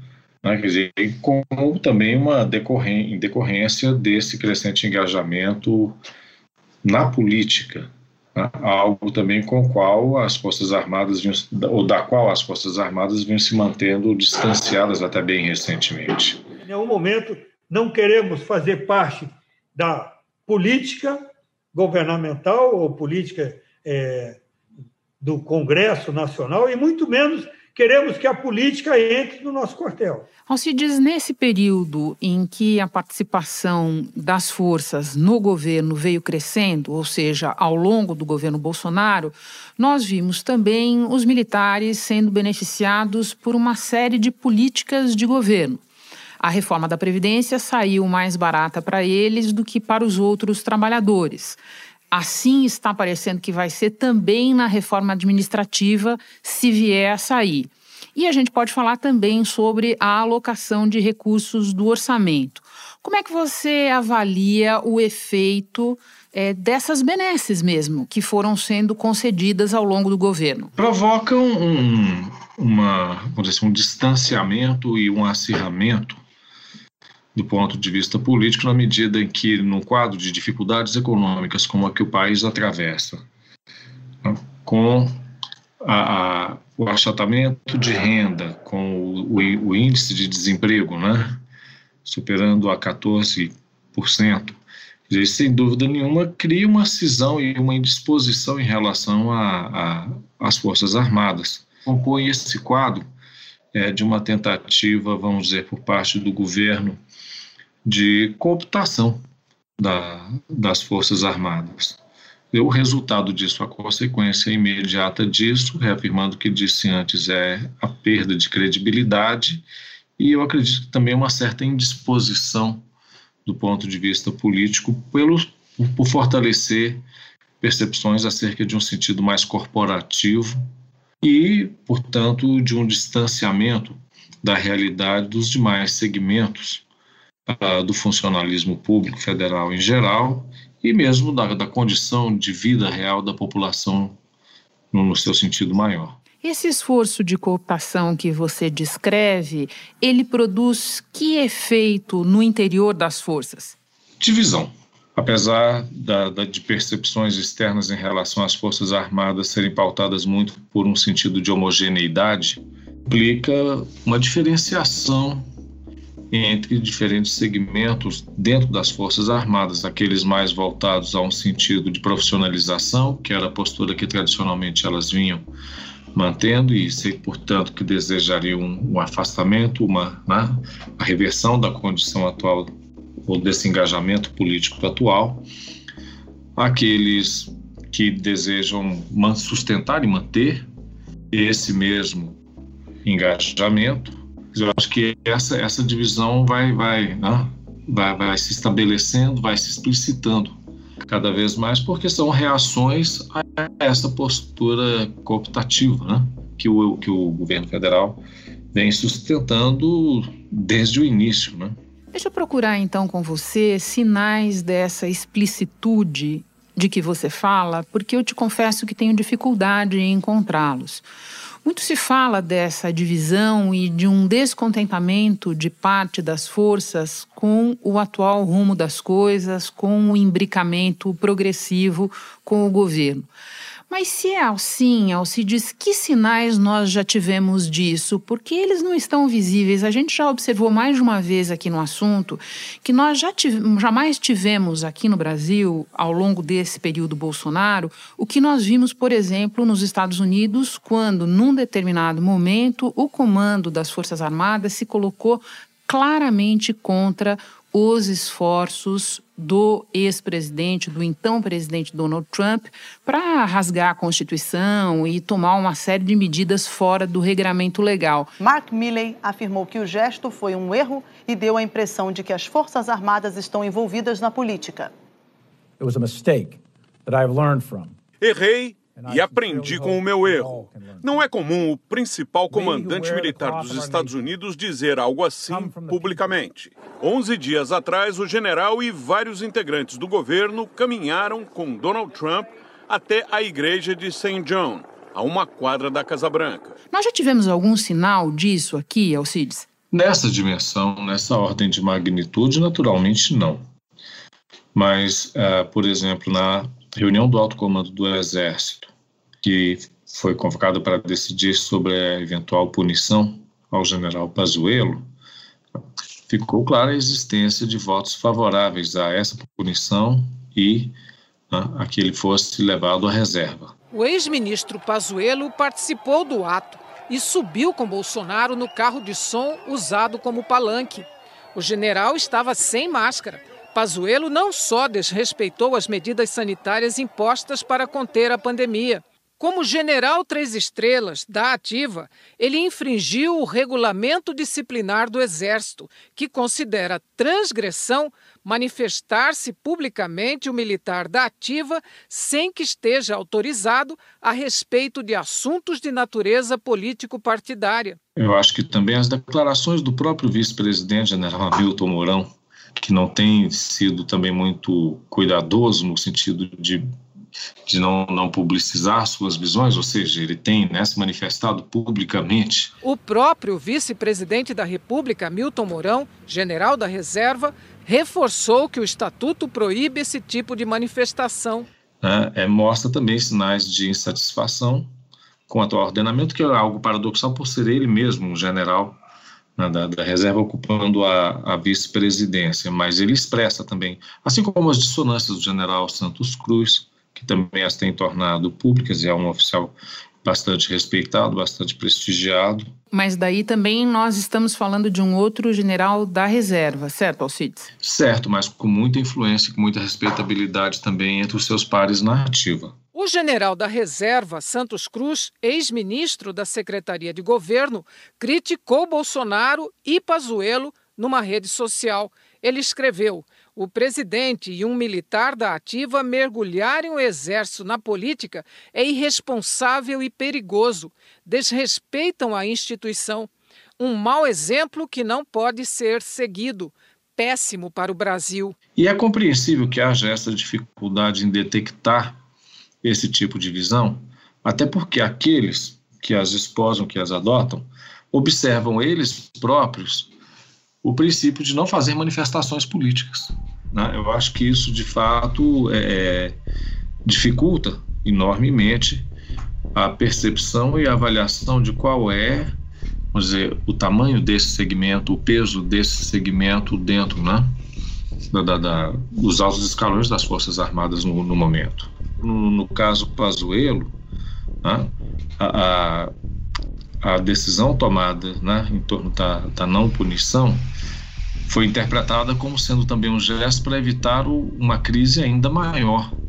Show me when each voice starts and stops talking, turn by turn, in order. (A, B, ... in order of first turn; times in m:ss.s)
0:00.4-0:06.0 A
0:06.8-0:16.4 A
0:16.7-0:21.2 B
0:21.7-0:24.4 B
0:25.2-0:30.3 B
0:30.5-0:45.8 C
0:46.4-0:51.6 C
0:52.1-1:10.7 C
1:10.8-1:16.2 A
1:17.4-1:23.2 A
1:24.2-1:25.1 A
1:25.8-1:31.4 A
1:32.0-1:34.6 A
1:35.1-1:43.0 A
1:43.7-1:47.0 A
1:47.8-1:49.2 A
1:49.8-1:52.0 A
1:52.5-1:59.6 A
2:00.2-2:02.8 A
2:03.5-2:07.0 A
2:07.6-2:10.6 A
2:11.2-2:16.8 A
2:17.5-2:24.2 A
2:24.9-2:26.2 A
2:26.4-2:33.8 C
2:34.2-2:45.4 A
2:46.3-2:55.4 A
2:56.2-3:02.7 A
3:03.3-3:05.4 A
3:06.6-3:10.7 A
3:11.3-3:12.4 A
3:13.0-3:28.2 A
3:28.7-3:31.8 A
3:32.1-3:41.0 C
3:41.6-3:53.3 C
3:53.9-4:28.3 C
4:28.4-4:34.9 D
4:35.8-4:38.0 E
4:38.2-4:40.5 F
4:38.9-4:41.3 E
4:41.0-4:56.8 F
4:42.5-4:44.2 E
4:45.5-4:46.4 E
4:56.9-4:59.7 C
4:59.9-5:03.6 A
5:04.7-5:08.9 A
5:09.4-5:15.1 A
5:16.3-5:20.9 A
5:21.5-5:23.8 A
5:23.9-5:58.0 G
5:58.2-6:06.8 A
6:07.7-6:12.7 A
6:12.8-6:21.7 G
6:22.0-6:24.9 A
6:25.5-6:29.0 A
6:29.6-6:42.7 A
6:42.9-6:47.7 C
6:47.8-6:52.8 A
6:53.0-7:18.6 G
7:18.8-7:22.2 A
7:22.8-7:30.1 A
7:30.8-7:36.4 A
7:37.0-7:39.1 A
7:39.7-7:42.5 A
7:43.1-7:47.5 A
7:48.3-7:53.9 A
7:54.6-7:56.1 A
7:57.0-8:00.6 A
8:01.5-8:06.1 A